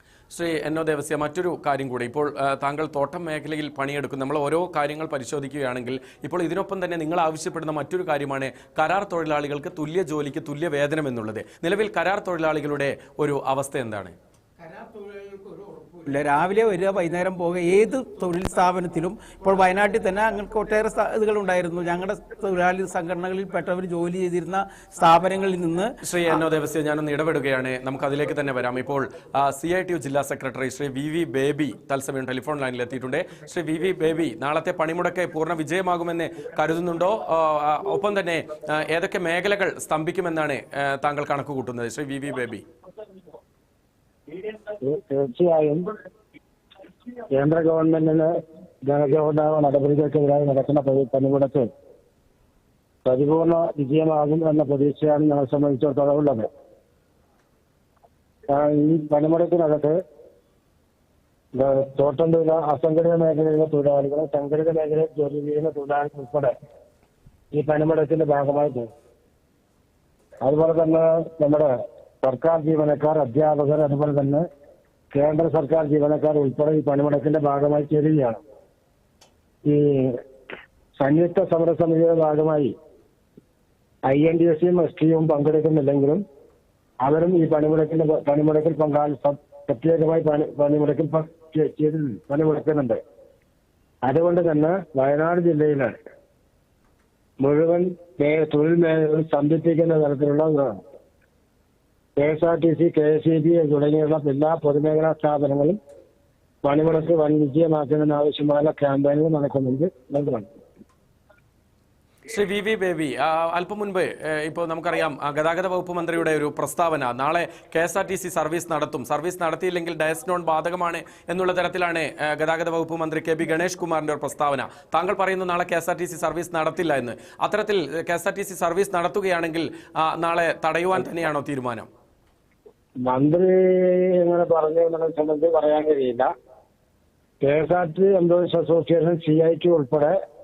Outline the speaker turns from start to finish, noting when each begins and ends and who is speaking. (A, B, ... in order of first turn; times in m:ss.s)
0:00.3-0:14.1 A
0:14.6-0:26.0 B
0:26.0-0:42.6 A
0:44.8-0:45.9 C
0:47.3-0:48.3 C
0:48.8-0:51.7 C
0:53.0-0:56.5 C
0:58.5-1:00.0 C
1:01.5-1:06.5 C
1:07.5-1:08.9 C
1:10.4-1:11.7 C
1:12.2-1:14.4 C
1:15.1-1:18.4 C
1:19.6-1:20.2 C
1:21.0-1:22.7 C
1:24.1-1:26.2 C
1:27.0-1:33.0 C
1:34.0-1:35.9 C
1:37.4-1:40.8 C
1:42.2-1:45.8 C
1:46.6-1:50.5 C
1:52.3-2:11.9 A
2:13.0-2:16.3 C
2:17.4-2:20.2 C